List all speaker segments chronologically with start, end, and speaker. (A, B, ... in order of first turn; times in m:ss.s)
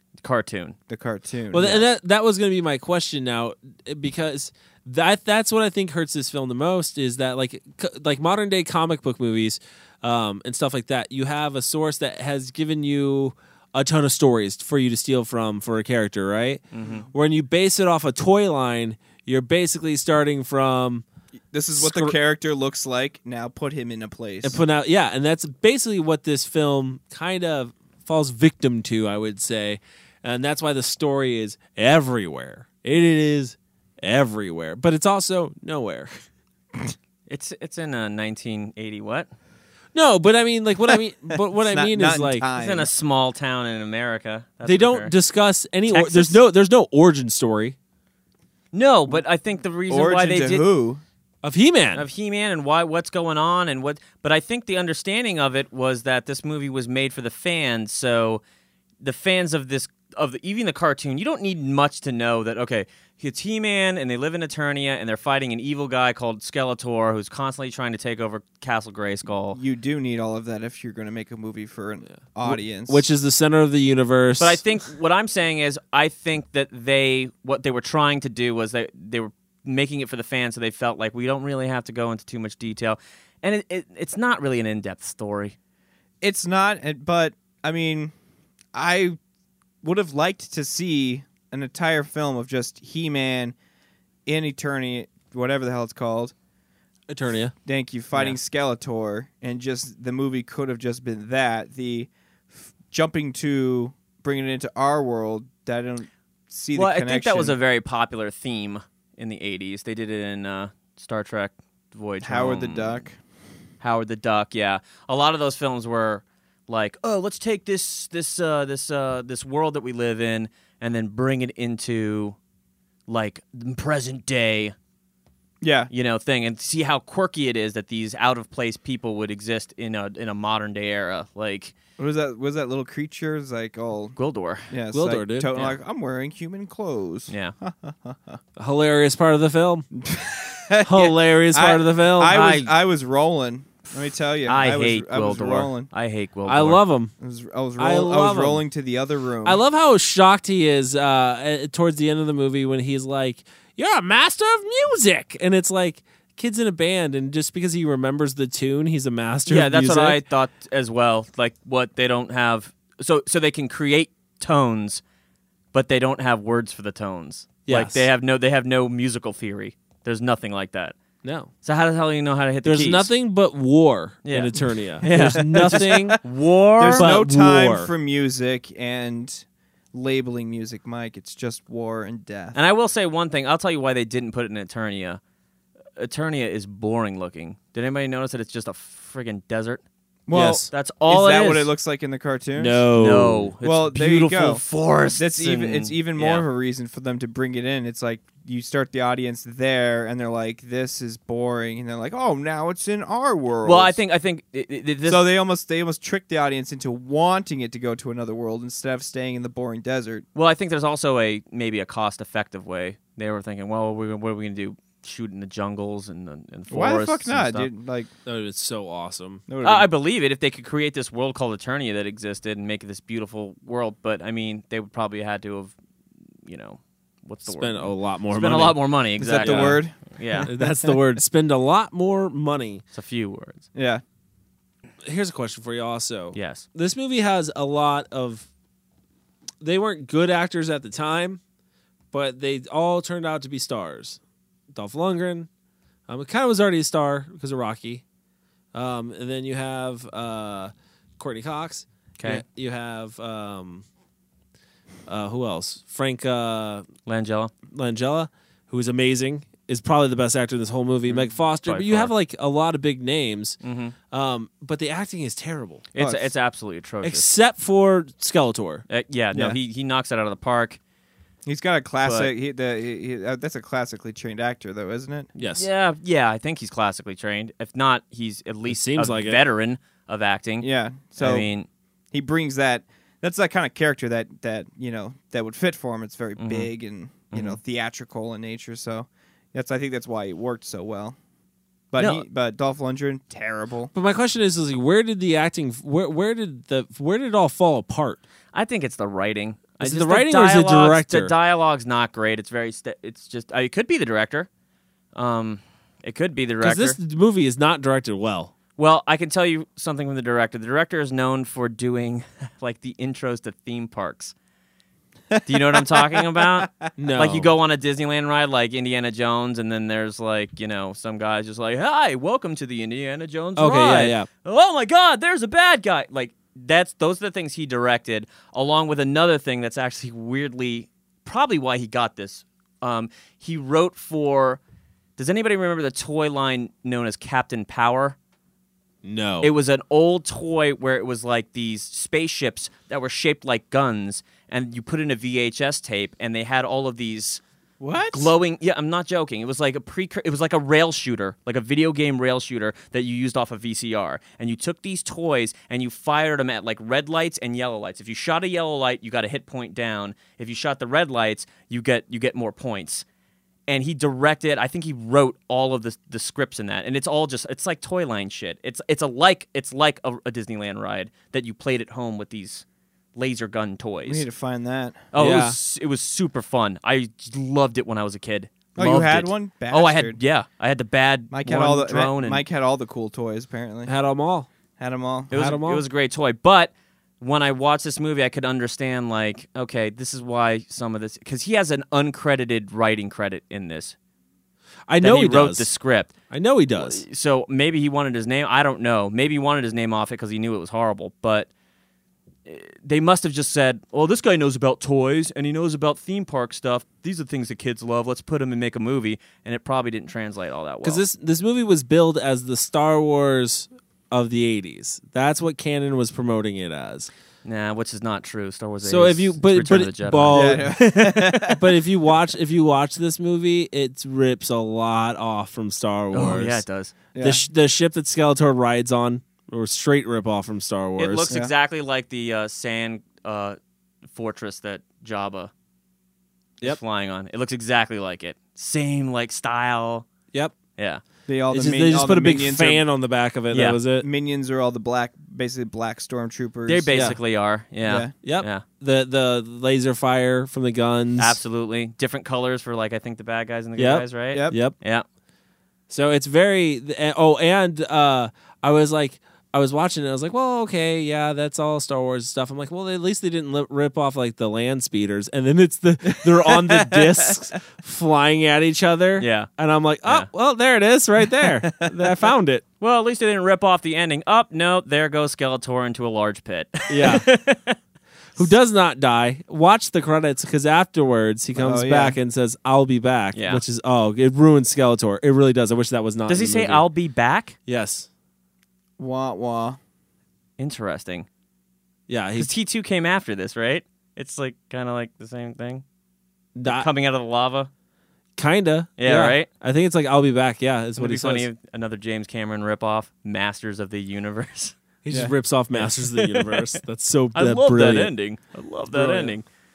0:00.2-0:00.8 A
0:00.9-0:01.9 B
0:01.5-0:21.0 C
0:16.7-0:17.0 A
0:21.5-0:24.6 B
0:21.7-0:22.2 C
0:24.4-0:36.2 C
0:37.3-0:39.3 A
0:39.9-0:42.4 C
0:41.3-0:42.9 B
0:42.6-0:45.1 A
0:44.6-0:47.8 C
0:45.9-0:46.4 A
0:48.7-0:50.7 A
0:49.9-0:51.0 B
0:51.4-0:52.0 C
0:51.9-0:58.4 A
0:59.0-1:09.6 A
1:09.5-1:13.0 B
1:12.4-1:14.6 C
1:14.4-1:25.6 A
1:26.2-1:28.1 B
1:28.7-1:29.2 B
1:29.8-1:33.5 B
1:34.2-1:36.3 B
1:37.1-1:37.5 C
1:37.6-1:42.1 B
1:38.1-1:38.4 A
1:42.9-1:47.6 B
1:46.7-1:53.0 A
1:52.2-1:53.2 B
1:53.8-2:02.4 A
2:03.1-2:04.7 A
2:05.6-2:05.9 B
2:05.9-2:11.7 A
2:12.0-2:14.2 B
2:14.2-2:14.7 A
2:14.7-2:18.4 B
2:14.9-2:15.5 C
2:17.3-2:17.5 A
2:18.6-2:19.9 C
2:19.9-2:25.9 B
2:20.8-2:22.4 C
2:22.3-2:22.7 A
2:24.4-2:26.8 A
2:26.4-2:27.1 C
2:27.2-2:29.6 B
2:27.8-2:28.6 C
2:29.4-2:40.2 C
2:39.5-2:45.0 A
2:45.7-2:51.0 A
2:47.6-2:48.1 C
2:51.2-2:51.5 C
2:51.6-2:53.1 A
2:52.6-2:56.2 C
2:54.2-2:57.1 A
2:55.1-2:56.2 B
2:56.8-3:02.6 B
2:56.9-2:57.9 C
3:02.5-3:05.2 A
3:06.0-3:09.8 A
3:10.3-3:12.8 B
3:10.3-3:10.7 C
3:10.7-3:11.7 A
3:12.6-3:14.5 C
3:12.9-3:16.4 A
3:13.6-3:24.0 B
3:23.6-3:25.3 A
3:25.1-3:30.2 B
3:30.3-3:37.7 A
3:36.7-3:38.1 B
3:38.2-3:39.4 C
3:39.5-3:39.9 B
3:39.6-3:45.7 A
3:46.4-3:50.5 A
3:47.4-3:48.8 C
3:49.2-3:50.9 B
3:49.4-3:49.8 C
3:50.5-3:52.8 C
3:52.9-3:53.6 A
3:53.7-3:54.0 B
3:55.0-3:58.5 C
3:56.3-3:56.6 A
3:59.6-4:01.4 C
4:02.1-4:04.2 C
4:04.7-4:05.5 C
4:06.1-4:08.0 C
4:08.7-4:13.8 C
4:15.1-4:16.8 C
4:17.0-4:17.5 A
4:17.7-4:25.8 C
4:21.1-4:22.1 A
4:23.6-4:23.9 A
4:25.9-4:27.2 A
4:26.0-4:26.3 B
4:27.0-4:28.8 C
4:28.9-4:30.8 A
4:31.4-4:35.3 B
4:32.0-4:32.3 A
4:35.4-4:35.6 C
4:35.6-4:41.7 A
4:38.7-4:39.4 C
4:40.6-4:41.5 B
4:42.1-4:51.2 B
4:46.4-4:46.7 A
4:47.3-4:47.6 A
4:51.9-4:53.9 B
4:52.0-4:52.2 A
4:53.9-4:58.2 C
4:58.5-5:04.5 A
4:59.8-5:01.3 C
5:05.1-5:07.0 A
5:06.6-5:08.5 C
5:08.8-5:14.3 A
5:15.3-5:16.9 B
5:15.4-5:34.6 A
5:17.0-5:17.5 C
5:23.6-5:24.3 C
5:35.2-5:38.2 A
5:39.0-5:39.5 C
5:39.4-5:47.4 A
5:47.8-5:48.3 B
5:48.1-6:03.0 A
6:03.7-6:14.2 A
6:14.0-6:15.0 B
6:15.1-6:22.4 A
6:15.2-6:15.6 C
6:18.8-6:20.2 B
6:21.3-6:23.9 B
6:23.8-6:24.5 C
6:24.8-6:25.3 B
6:25.3-6:25.8 C
6:25.3-6:33.9 A
6:34.9-6:35.7 C
6:35.0-6:36.1 A
6:36.3-6:37.0 C
6:36.8-6:41.5 A
6:42.4-6:51.0 A
6:50.8-6:57.1 C
6:57.4-7:01.5 A
6:58.8-7:00.8 C
7:00.3-7:01.6 B
7:01.4-7:06.6 C
7:06.1-7:06.9 A
7:07.1-7:07.4 B
7:07.2-7:11.3 C
7:11.0-7:13.6 A
7:14.1-7:15.5 A
7:16.6-7:20.0 A
7:20.8-7:21.0 A
7:21.3-7:22.8 B
7:21.5-7:24.1 C
7:23.5-7:23.8 A
7:24.0-7:26.9 B
7:26.7-7:28.6 A
7:26.9-7:27.2 C
7:27.8-7:28.1 B
7:28.2-7:31.4 C
7:31.2-7:35.0 A
7:33.8-7:34.7 C
7:34.3-7:34.6 B
7:35.9-7:52.6 C
7:46.1-7:47.3 B
7:49.2-7:49.5 A
7:51.6-7:51.9 B
7:52.8-7:57.8 A
7:56.9-7:57.3 C
7:58.4-8:06.8 C
8:01.5-8:02.2 B
8:03.3-8:03.6 A
8:06.3-8:07.6 A
8:07.7-8:08.1 C
8:09.0-8:09.8 B
8:10.6-8:11.3 A
8:12.1-8:12.5 C
8:12.4-8:15.8 A
8:16.6-8:16.9 C
8:16.6-8:17.7 A
8:18.4-8:21.5 C
8:19.0-8:19.5 A
8:21.0-8:24.7 A
8:25.0-8:28.1 C
8:25.8-8:26.8 A
8:27.3-8:29.4 A
8:28.9-8:29.3 B